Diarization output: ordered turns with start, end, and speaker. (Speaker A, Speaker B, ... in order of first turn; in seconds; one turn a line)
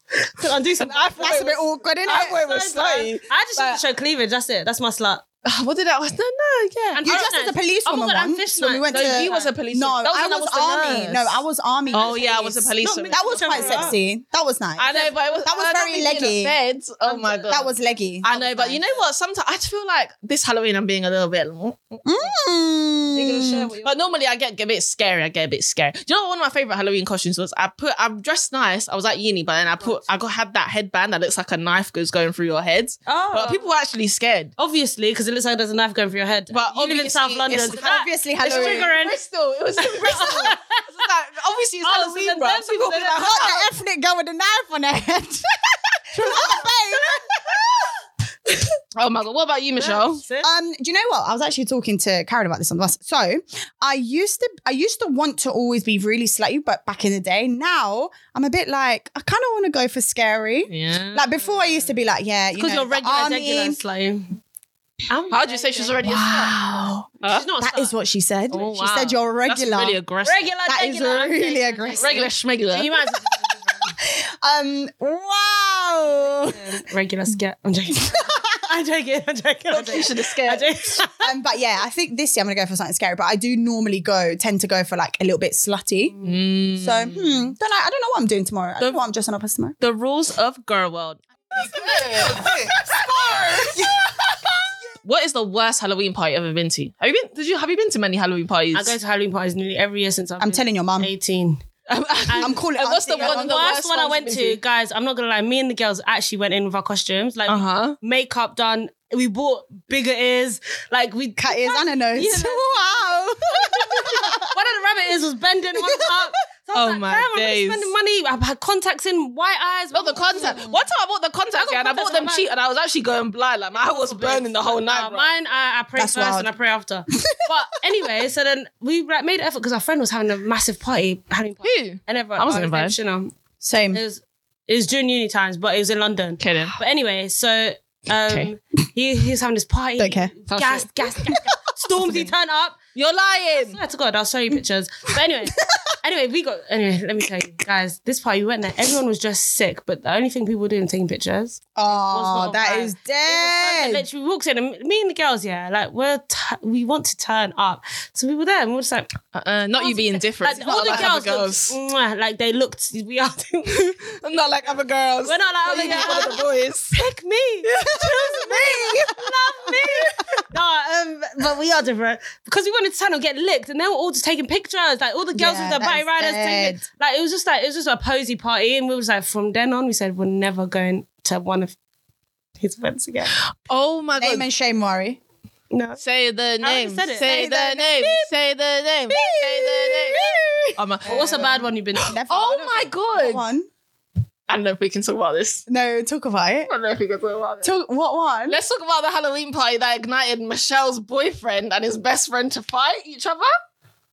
Speaker A: 0.2-5.2
Speaker B: 0.8-1.5
Speaker C: 0.9-2.4
Speaker B: 2.0-3.8
Speaker B: 5.4-7.3
Speaker A: 6.9-9.5
Speaker C: 7.0-16.6
Speaker B: 8.9-11.4
Speaker A: 11.9-12.2
Speaker B: 11.9-13.9
Speaker A: 12.8-14.0
Speaker B: 14.8-17.7
Speaker A: 17.1-17.7
Speaker C: 17.5-18.3
Speaker B: 18.2-22.3
Speaker A: 18.3-19.0
Speaker C: 22.0-23.7
Speaker A: 23.1-24.1
Speaker B: 23.8-34.5
Speaker A: 33.1-33.6
Speaker A: 34.6-39.2
Speaker B: 36.5-43.7
Speaker C: 37.5-38.9
Speaker A: 39.8-40.9
Speaker A: 41.8-43.3
Speaker C: 43.0-47.9
Speaker B: 46.1-46.6
Speaker A: 46.2-47.4
Speaker B: 49.0-50.2
Speaker A: 49.8-50.5
Speaker C: 50.4-63.8
Speaker B: 60.7-61.6
Speaker A: 62.5-64.4
Speaker A: 65.1-66.6
Speaker B: 65.3-67.5
Speaker C: 66.1-66.4
Speaker A: 67.2-67.9
Speaker C: 67.6-70.0
Speaker B: 68.5-70.4
Speaker A: 70.2-74.0
Speaker C: 70.7-72.3
Speaker B: 72.0-72.9
Speaker C: 74.0-76.8
Speaker A: 76.4-81.3
Speaker C: 78.0-78.4
Speaker B: 79.7-80.7
Speaker C: 81.2-86.2
Speaker B: 86.2-87.5
Speaker C: 86.8-89.8
Speaker B: 89.8-93.9
Speaker C: 91.8-92.4
Speaker C: 93.1-94.0
Speaker B: 95.0-99.0
Speaker A: 98.7-101.6
Speaker C: 100.4-101.1
Speaker B: 101.9-104.6
Speaker A: 102.3-102.6
Speaker C: 102.4-103.7
Speaker A: 103.1-120.6
Speaker B: 107.5-108.0
Speaker C: 111.4-114.5
Speaker C: 115.8-116.3
Speaker B: 116.7-117.9
Speaker B: 119.9-125.3
Speaker A: 121.5-122.5
Speaker A: 123.7-133.3
Speaker C: 126.0-126.5
Speaker C: 127.1-127.4
Speaker B: 131.6-133.0
Speaker C: 133.6-134.0
Speaker A: 133.9-142.8
Speaker B: 136.4-136.8
Speaker C: 140.0-140.3
Speaker B: 140.5-140.9
Speaker B: 142.0-142.3
Speaker B: 142.9-143.8
Speaker A: 143.5-159.1
Speaker C: 151.8-154.1
Speaker B: 159.3-161.7
Speaker A: 159.8-163.9
Speaker C: 160.6-161.2
Speaker B: 163.7-167.0
Speaker A: 165.2-181.8
Speaker C: 165.7-166.4
Speaker B: 167.6-169.3
Speaker C: 168.3-169.1
Speaker C: 175.3-176.8
Speaker A: 182.6-183.4
Speaker B: 183.7-184.5
Speaker C: 184.2-185.2
Speaker A: 185.7-186.0
Speaker B: 186.0-191.7
Speaker A: 186.6-188.2
Speaker C: 187.3-188.0
Speaker C: 189.1-191.4
Speaker A: 191.1-192.2
Speaker C: 192.1-193.7
Speaker B: 192.3-193.4
Speaker B: 194.5-195.7
Speaker C: 195.7-196.7
Speaker B: 196.7-197.7
Speaker C: 197.6-198.6
Speaker B: 198.5-203.5